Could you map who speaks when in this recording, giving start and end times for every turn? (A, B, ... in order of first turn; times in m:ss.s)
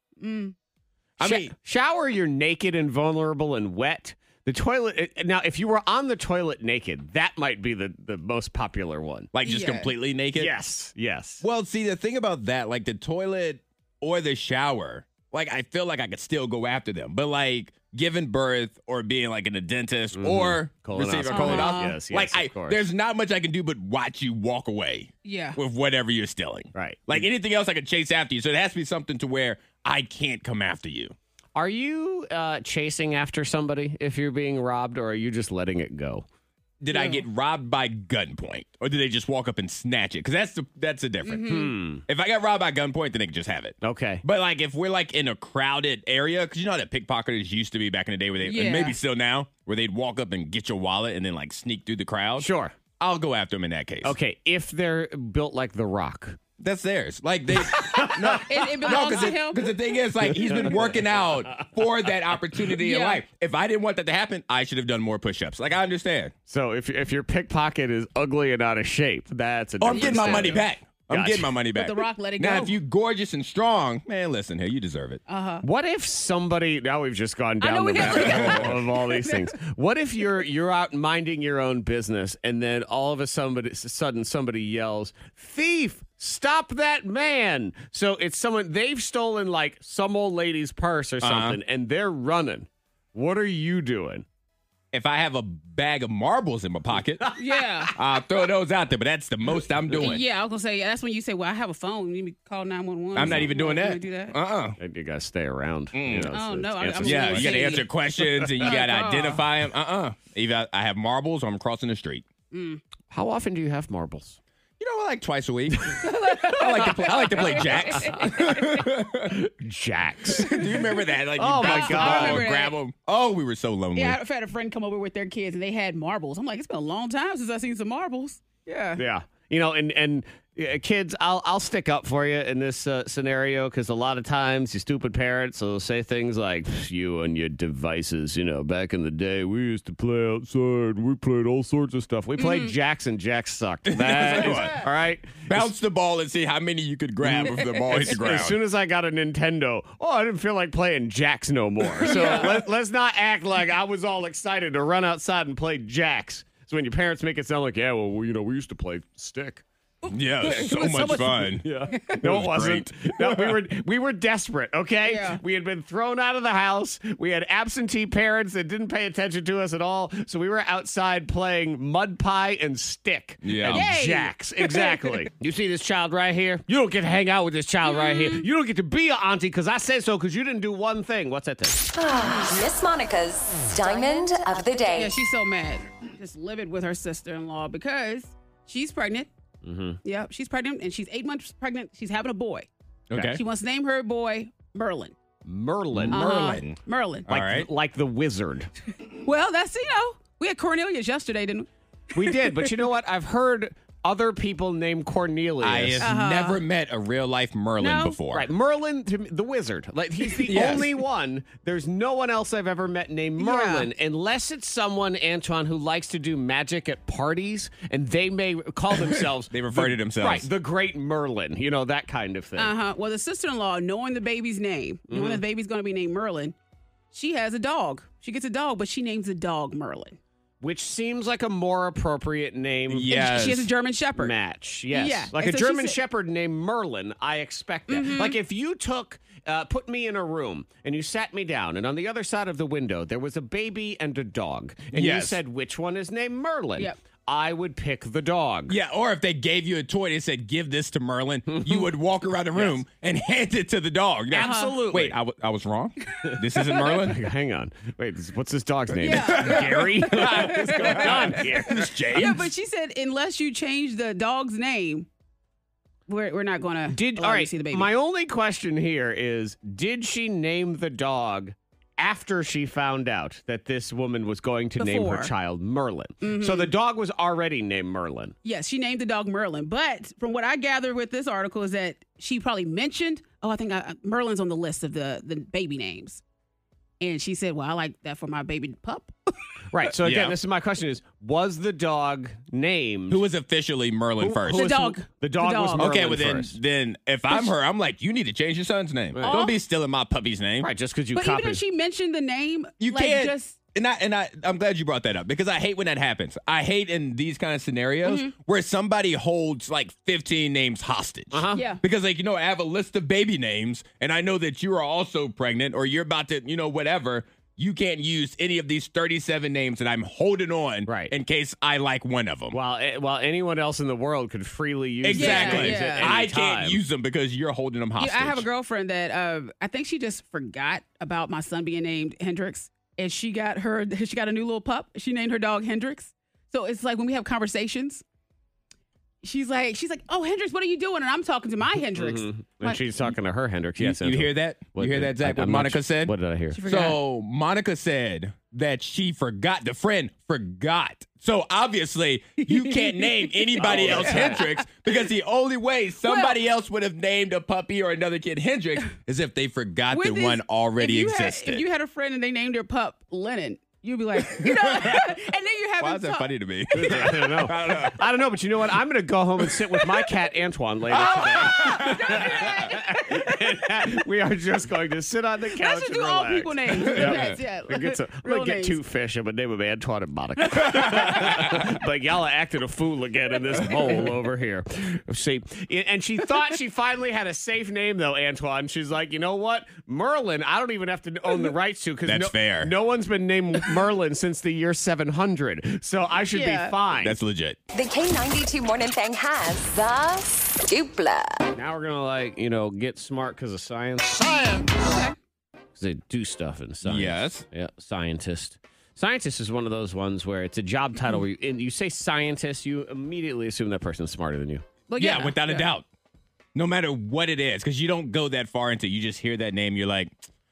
0:00.2-0:00.5 A
0:01.2-0:01.5 B
0:01.2-0:09.3 C
0:09.3-0:10.5 B
0:09.4-0:09.9 A
0:10.4-0:11.4 C
0:11.4-0:31.1 B
0:20.1-0:22.8 C
0:21.3-0:22.0 A
0:25.2-0:25.6 A
0:26.7-0:27.2 C
0:31.5-0:36.2 C
0:36.8-0:54.2 B
0:36.9-0:37.2 A
0:41.2-0:41.7 A
0:41.4-0:42.0 C
0:43.8-0:44.2 C
0:48.4-0:49.0 A
0:52.4-0:52.7 C
0:54.0-0:56.4 C
0:56.6-1:06.3 B
0:57.6-0:59.3 C
0:58.4-0:59.7 A
1:00.2-1:01.7 C
1:02.8-1:03.2 A
1:06.5-1:11.5 C
1:09.8-1:15.2 B
1:09.9-1:10.6 A
1:11.7-1:12.8 A
1:15.3-1:15.6 A
1:15.6-1:34.2 C
1:17.6-1:19.5 A
1:18.0-1:18.8 B
1:31.2-1:31.6 B
1:34.9-1:37.2 B
1:37.2-1:37.5 C
1:37.4-1:37.9 A
1:37.9-1:40.2 B
1:40.0-1:44.4 A
1:43.1-1:44.8 B
1:43.2-1:43.5 C
1:44.8-1:48.7 C
1:45.9-1:46.3 B
1:46.3-1:47.9 A
1:47.0-1:52.3 B
1:48.6-1:49.5 A
1:52.5-1:52.8 A
1:53.1-1:54.4 C
1:54.8-1:59.4 B
1:56.0-1:58.9 A
1:57.4-1:58.0 C
1:59.3-2:00.7 C
2:00.3-2:04.2 B
2:01.4-2:02.4 C
2:01.6-2:02.8 A
2:03.9-2:09.0 A
2:08.9-2:25.6 C
2:22.4-2:22.7 A
2:23.9-2:24.8 B
2:24.4-2:24.7 A
2:25.4-2:28.6 B
2:27.2-2:39.6 C
2:27.4-2:28.0 A
2:32.1-2:32.5 A
2:32.1-2:32.4 B
2:40.0-2:42.2 A
2:40.1-2:43.6 B
2:41.6-3:01.8 C
2:45.0-2:45.4 A
2:53.4-2:53.8 B
2:53.7-2:55.2 A
2:57.8-2:58.4 A
3:02.0-3:05.1 D
3:04.9-3:09.3 A
3:09.6-3:10.0 C
3:10.0-3:12.7 A
3:13.1-3:13.4 B
3:13.2-3:15.1 A
3:15.4-3:16.7 C
3:15.9-3:17.7 B
3:16.1-3:17.3 A
3:17.3-3:18.7 C
3:19.2-3:21.7 A
3:22.1-3:26.1 C
3:22.2-3:22.7 A
3:25.6-3:28.5 B
3:26.0-3:26.6 A
3:27.8-3:28.2 A
3:28.3-3:42.8 C
3:30.4-3:30.9 B
3:33.4-3:33.9 A
3:38.9-3:40.5 B
3:42.6-3:46.5 A
3:45.1-3:45.4 C
3:47.1-3:50.2 A
3:50.6-3:53.1 C
3:52.9-3:53.7 B
3:53.1-3:54.3 A
3:54.2-4:08.8 C
3:54.9-3:56.0 A
3:57.9-3:58.4 A
4:04.9-4:05.4 B
4:08.7-4:17.2 B
4:11.5-4:11.9 C
4:12.5-4:12.8 C
4:14.3-4:15.2 C
4:14.4-4:14.8 A
4:16.3-4:22.0 C
4:19.0-4:21.2 A
4:19.0-4:22.5 B
4:22.1-4:25.1 A
4:26.1-4:27.9 A
4:26.9-4:38.3 C
4:34.8-4:35.3 A
4:36.2-4:36.7 A
4:38.4-4:46.2 A
4:47.0-4:49.1 A
4:49.7-4:53.2 C
4:49.8-4:50.4 B
4:53.1-4:54.7 B
4:54.2-4:56.6 C
4:54.5-4:55.9 A
4:55.8-5:00.7 B
4:57.3-4:57.5 A
4:59.1-4:59.4 C
4:59.2-4:59.6 A
5:00.6-5:01.6 C
5:01.1-5:03.6 A
5:02.8-5:22.6 B
5:08.0-5:08.3 A
5:11.3-5:11.6 C
5:11.5-5:11.8 A
5:20.8-5:21.1 C
5:22.5-5:26.8 C
5:25.0-5:28.4 B
5:25.1-5:26.1 A
5:28.0-5:38.0 A
5:39.2-5:42.8 A
5:42.0-5:46.6 C
5:43.8-6:01.6 B
5:46.5-5:47.0 A
5:52.4-5:54.6 A
5:53.6-5:54.4 C
5:56.0-5:56.4 A
5:59.9-6:06.3 A
6:04.3-6:05.1 B
6:05.8-6:08.0 B
6:06.7-6:37.2 C
6:10.9-6:12.8 A
6:11.1-6:12.4 B
6:15.6-6:18.8 A
6:16.8-6:17.3 B
6:20.4-6:21.2 A
6:21.0-6:21.6 B
6:32.0-6:32.7 B
6:36.3-6:36.7 A
6:37.0-6:37.6 B
6:37.7-6:41.5 D
6:41.5-6:44.6 C
6:44.7-6:45.1 A
6:45.7-6:54.6 C
6:46.8-6:47.4 B
6:54.9-6:55.7 A
6:55.0-6:55.9 B
6:56.5-7:00.1 B